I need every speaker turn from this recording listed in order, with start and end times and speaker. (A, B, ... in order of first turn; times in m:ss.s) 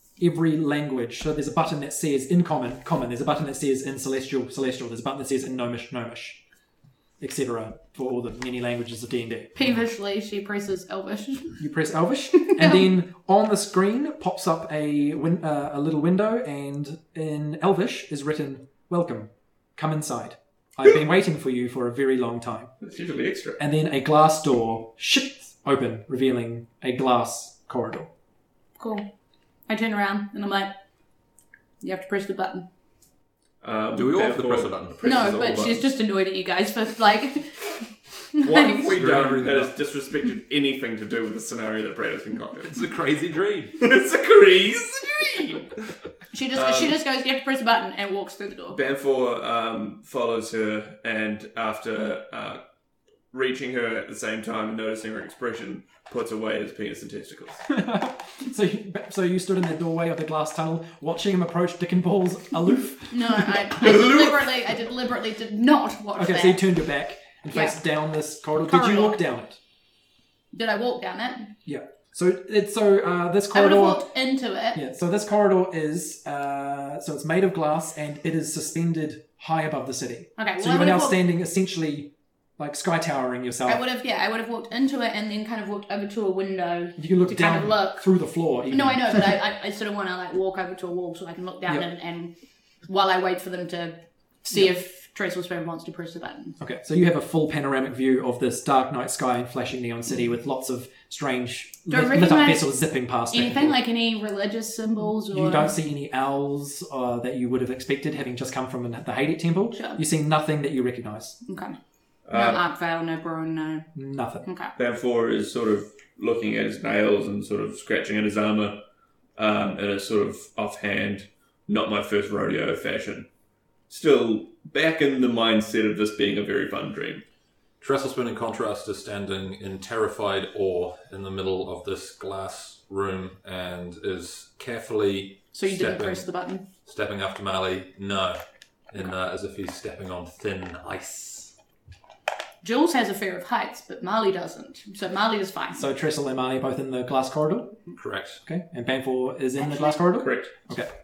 0:00.2-0:06.4 A
0:07.2-0:09.5 A
0:09.5-0:11.6 B
0:11.6-0:22.7 A
0:22.8-0:23.6 C
0:23.6-0:28.1 A
0:28.8-0:29.1 B
0:29.7-0:30.7 B
0:31.8-0:32.7 B
0:33.6-0:35.8 C
0:33.9-0:35.7 D
0:35.0-0:37.7 B
0:38.3-0:38.9 B
0:38.4-0:42.8 C
0:38.9-0:39.7 D
0:42.7-0:43.8 D
0:43.8-0:45.7 C
0:46.3-0:48.8 B
0:46.5-0:47.0 C
0:48.7-0:52.6 C
0:53.3-0:57.6 C
0:57.7-1:03.9 A
1:03.1-1:06.6 B
1:03.8-1:04.3 C
1:06.2-1:09.6 A
1:07.5-1:07.8 B
1:08.7-1:09.2 B
1:10.5-1:11.5 B
1:11.6-1:14.0 A
1:13.5-1:14.8 B
1:14.7-1:23.8 A
1:20.4-1:21.2 B
1:23.6-1:28.0 B
1:27.0-1:29.4 A
1:28.7-1:32.3 B
1:32.8-1:36.6 B
1:36.6-1:43.8 A
1:41.9-1:42.7 B
1:43.3-1:45.7 B
1:45.3-1:51.4 A
1:49.7-1:50.0 B
1:51.4-1:51.8 B
1:52.2-1:52.6 C
1:52.3-1:53.9 B
1:53.9-1:54.5 A
1:54.4-1:54.7 B
1:54.8-1:58.8 C
1:59.4-2:03.3 C
2:03.9-2:07.2 C
2:07.8-2:16.2 D
2:15.5-2:16.6 B
2:16.8-2:18.4 D
2:18.9-2:21.5 D
2:22.6-2:25.8 B
2:25.8-2:27.8 A
2:28.0-2:28.4 D
2:28.4-2:30.9 A
2:29.6-2:30.0 B
2:30.1-2:30.5 C